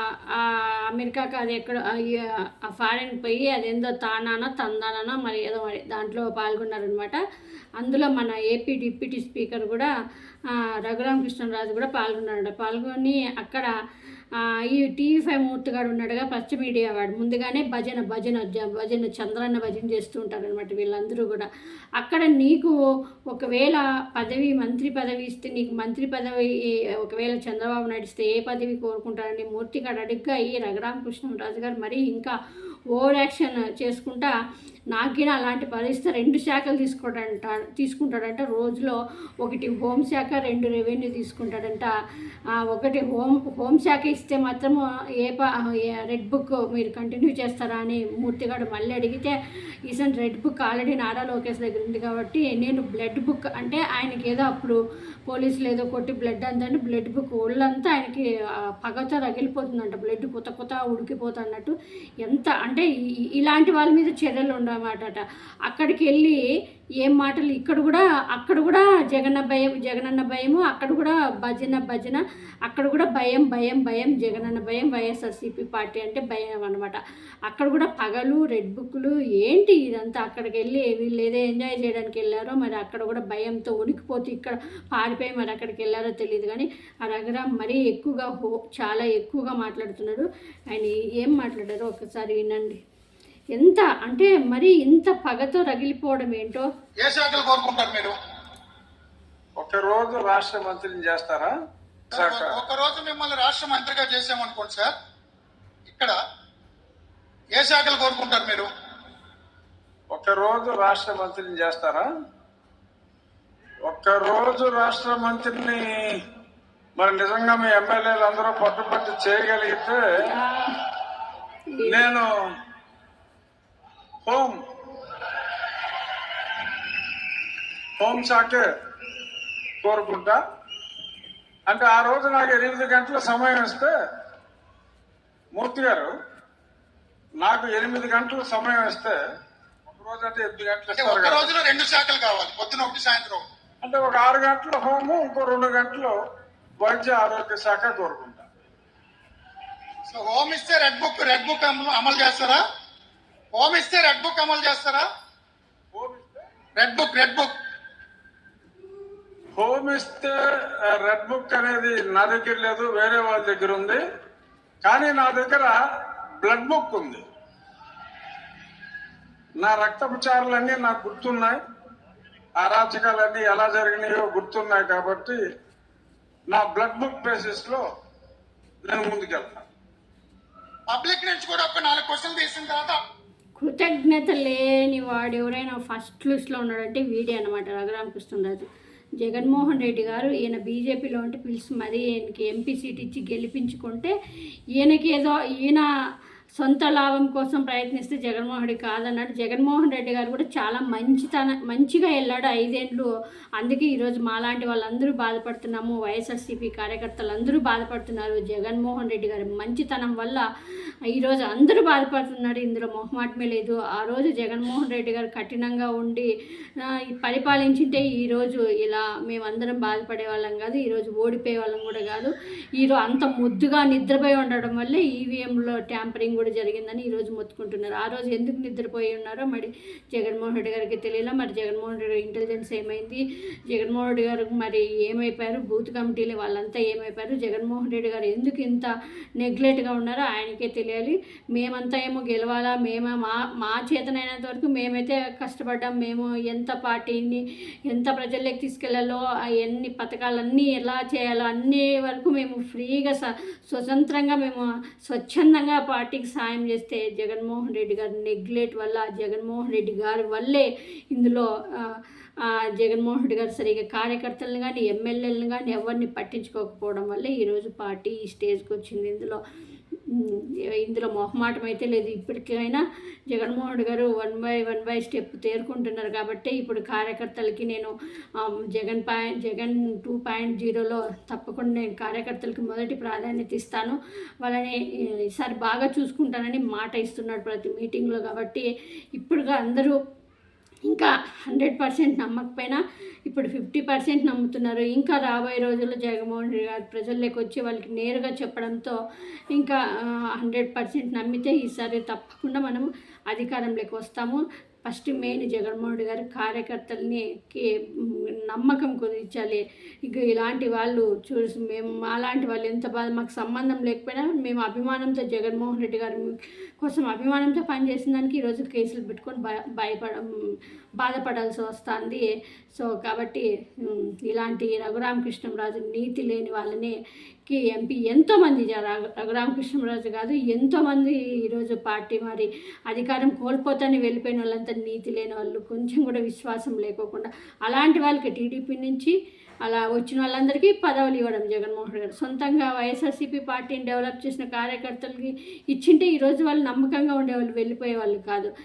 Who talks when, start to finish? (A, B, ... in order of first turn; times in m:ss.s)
0:00.3-0:07.2 A
0:07.8-0:09.9 A
0:10.5-0:13.7 A
0:14.4-0:22.8 A
0:23.3-0:32.4 A
0:32.9-0:34.3 A
0:34.9-0:41.9 A
0:42.7-0:49.4 A
0:49.9-0:54.8 A
0:55.3-0:58.3 A
0:58.8-1:02.9 A
1:03.4-1:06.4 A
1:07.0-1:32.8 A
1:33.6-1:36.7 A
1:37.0-1:38.2 B
1:39.6-1:41.5 C
1:42.1-1:44.9 B
1:42.1-1:42.6 C
1:45.9-1:46.2 B
1:47.6-1:48.7 B
1:50.1-1:52.1 C
1:53.9-1:55.9 C
1:57.0-2:00.0 C
2:00.2-2:00.8 A
2:01.7-2:02.0 A
2:01.9-2:02.3 C
2:04.2-2:04.6 C
2:08.0-2:08.7 C
2:09.8-2:10.4 C
2:11.7-2:13.9 C
2:15.6-2:16.1 C
2:17.4-2:19.2 C
2:19.9-2:21.5 C
2:21.0-2:23.4 B
2:23.8-2:26.2 C
2:26.8-2:28.4 C
2:30.1-2:32.6 B
2:33.5-2:35.0 B
2:35.9-2:36.3 C
2:36.8-2:37.5 B
2:39.6-2:44.0 C
2:44.8-2:45.8 C
2:46.4-2:47.2 C
2:49.6-2:51.6 C
2:52.6-2:55.4 C
2:56.5-2:57.8 C
2:58.8-2:59.7 C
3:00.9-3:03.0 B
3:03.6-3:08.7 A
3:09.2-3:14.1 A
3:14.8-3:15.9 A
3:16.6-3:30.4 A
3:31.1-4:29.4 A
4:30.1-4:44.8 A
4:45.3-4:50.0 A
4:50.9-4:59.0 A
4:59.6-4:59.8 A
5:00.3-5:22.2 A
5:22.8-5:48.5 A